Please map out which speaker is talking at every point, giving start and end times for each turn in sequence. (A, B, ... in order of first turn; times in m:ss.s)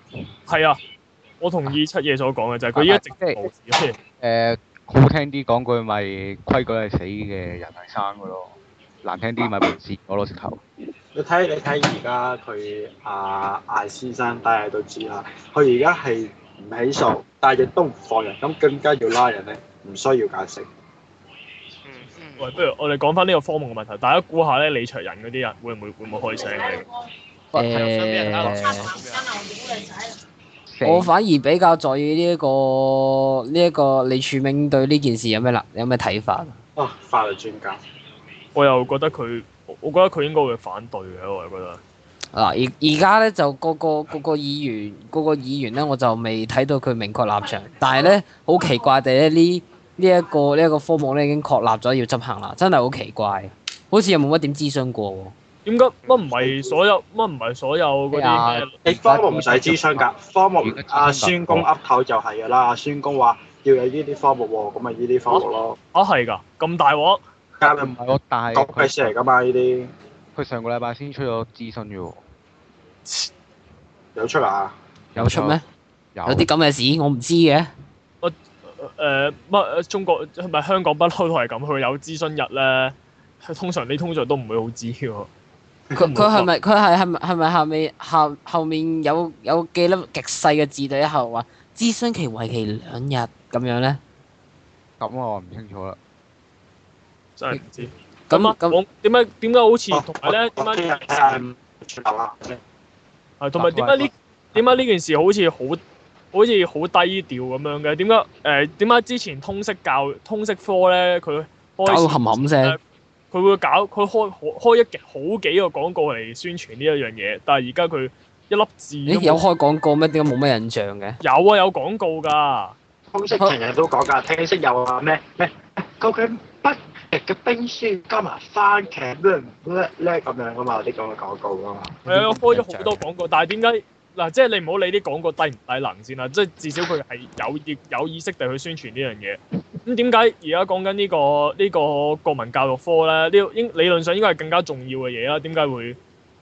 0:00.5-0:00.8 A
0:01.4-0:04.0 A
0:02.8-0:03.5 B
0:04.2-0:10.6 B
0:11.1-0:20.7 C
0:21.8-0:22.6 D
0:22.4-0:26.9 A
0:27.5-0:29.0 E
0:27.5-0:29.7 D
0:30.7-0:31.1 B
0:30.8-0:36.6 E
0:36.8-0:37.8 C
0:38.5-0:41.8 A
0:42.3-0:55.3 E
0:55.6-0:58.8 A
0:56.3-0:56.7 C
0:58.1-0:58.7 E
0:58.8-1:05.8 C
0:58.9-1:00.0 B
1:00.6-1:01.7 B
1:05.3-1:07.2 A
1:07.6-1:07.9 C
1:07.6-1:09.1 B
1:08.5-1:09.9 C
1:10.3-1:12.2 B
1:13.0-1:13.3 A
1:14.1-1:14.7 C
1:15.1-1:15.6 B
1:15.2-1:15.6 E
1:16.1-1:16.5 B
1:16.2-1:17.7 E
1:18.2-1:25.3 A
1:25.9-1:26.4 C
1:26.0-1:34.0 E
1:35.0-1:36.0 B
1:37.4-1:41.4 A
1:38.3-1:38.8 E
1:39.9-1:42.6 C
1:43.4-1:45.8 A
1:43.6-1:44.0 B
1:46.3-1:52.8 A
1:51.8-1:52.8 E
1:53.3-1:59.4 A
1:59.0-2:01.2 E
2:01.2-2:02.7 A
2:03.1-2:12.0 C
2:12.0-2:13.0 E
2:12.0-2:26.0 A